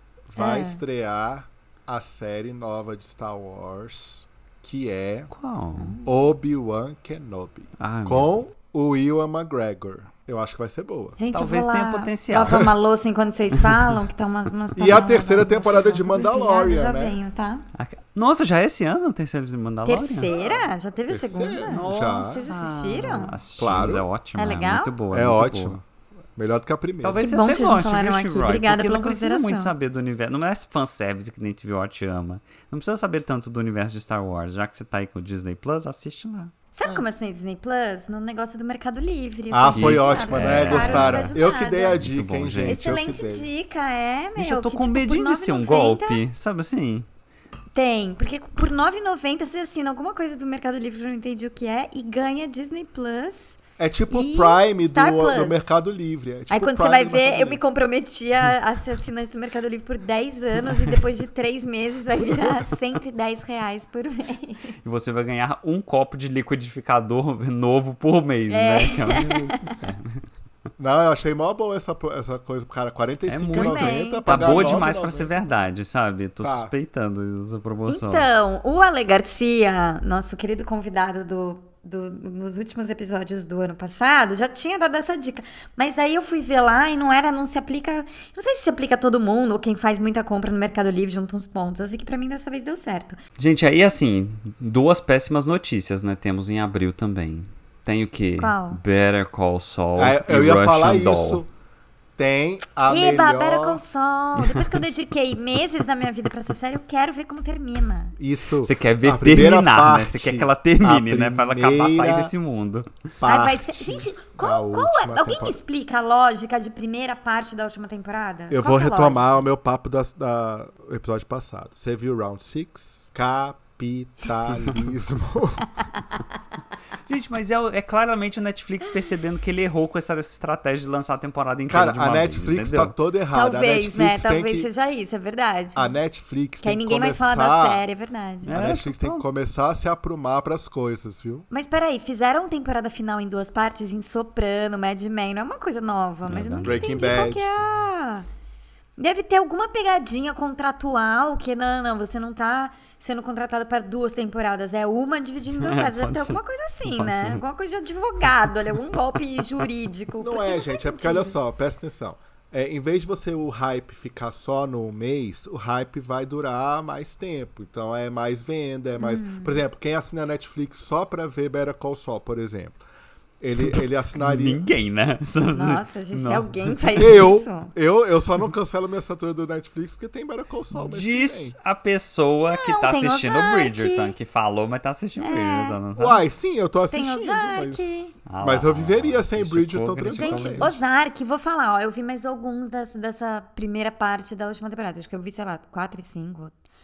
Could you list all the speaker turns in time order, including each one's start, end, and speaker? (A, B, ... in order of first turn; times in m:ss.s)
0:00.3-0:05.3 A
0:00.4-0:00.8 B
0:05.3-0:05.9 C
0:05.8-0:06.1 B
0:06.0-0:11.2 A
0:07.8-0:08.3 C
0:11.2-0:17.6 B
0:11.3-0:12.7 C
0:13.6-0:13.9 C
0:14.8-0:17.2 A
0:17.8-0:20.3 C
0:19.8-0:23.4 B
0:20.3-0:22.4 A
0:21.7-0:25.8 C
0:23.6-0:24.0 A
0:24.4-0:24.9 B
0:25.1-0:25.8 A
0:26.4-0:27.2 A
0:27.0-0:36.5 C
0:27.2-0:29.7 B
0:36.7-0:42.0 B
0:39.5-0:43.5 A
0:39.8-0:42.8 C
0:42.6-0:46.2 B
0:44.4-0:47.1 C
0:47.7-0:53.6 B
0:53.8-0:57.6 A
0:54.1-0:55.7 B
0:56.5-1:04.8 B
1:04.8-1:10.2 C
1:08.5-1:09.7 B
1:10.8-1:15.5 A
1:13.3-1:18.3 C
1:13.5-1:14.9 B
1:16.4-1:16.7 A
1:17.9-1:33.2 B
1:33.4-1:41.4 C
1:38.4-1:38.8 B
1:40.0-1:41.5 A
1:42.2-1:43.8 A
1:42.9-1:48.2 B
1:48.2-1:52.3 A
1:48.6-1:52.9 C
1:53.2-1:55.6 A
1:53.2-1:59.4 B
1:58.5-2:05.7 A
2:07.1-2:12.9 C
2:11.7-2:14.7 A
2:13.3-2:15.9 B
2:15.8-2:17.8 A
2:16.6-2:18.6 B
2:18.4-2:19.2 C
2:18.5-2:21.5 A
2:21.5-2:28.3 B
2:26.3-2:27.0 C
2:26.6-2:27.5 A
2:29.0-2:41.4 B
2:35.6-2:37.4 C
2:40.2-2:52.8 A
2:49.0-2:49.6 B
2:53.4-2:54.6 A
2:53.7-2:57.3 C
2:55.5-2:57.7 B
2:57.0-3:01.6 A
3:00.7-3:06.2 C
3:02.5-3:04.1 B
3:05.2-3:05.8 B
3:06.0-3:10.7 A
3:06.9-3:08.2 B
3:08.3-3:10.8 C
3:10.1-3:16.5 B